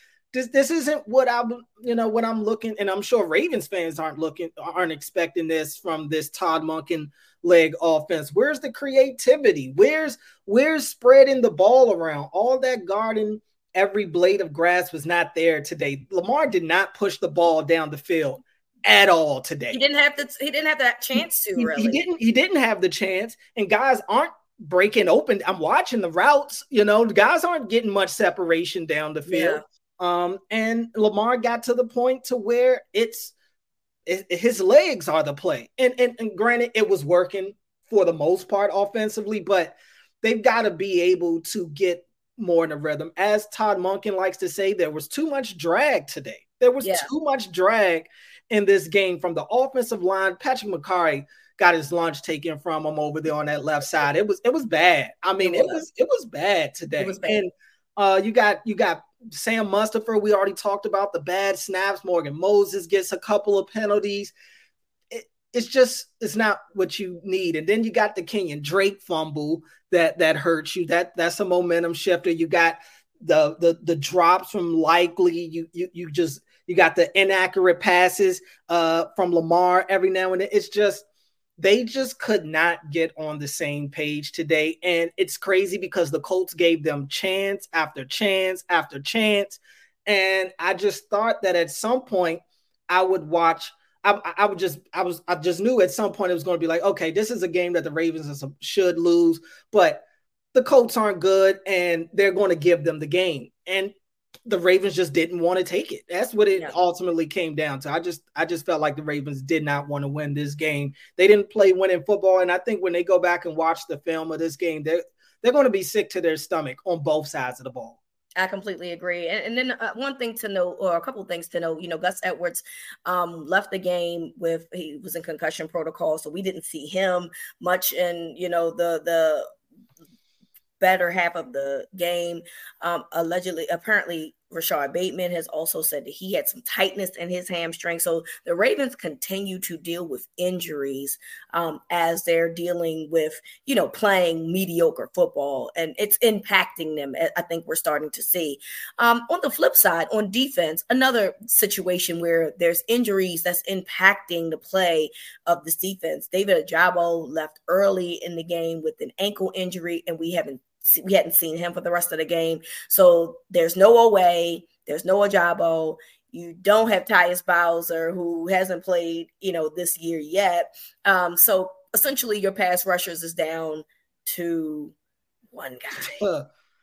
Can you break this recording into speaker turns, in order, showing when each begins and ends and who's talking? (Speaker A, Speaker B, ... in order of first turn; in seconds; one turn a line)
Speaker A: 0.3-19.8
Speaker B: 19.7-22.0
Speaker A: 21.6-33.3
Speaker B: 29.3-29.6
Speaker A: 34.0-64.3
Speaker B: 46.8-47.1
Speaker B: 55.4-55.8
Speaker B: 57.0-57.4
Speaker A: 65.1-81.0
Speaker A: 81.6-103.9
Speaker A: 104.5-118.0
Speaker B: 118.4-129.5
Speaker B: 130.8-174.9
Speaker B: 175.5-176.2
Speaker A: 176.0-176.5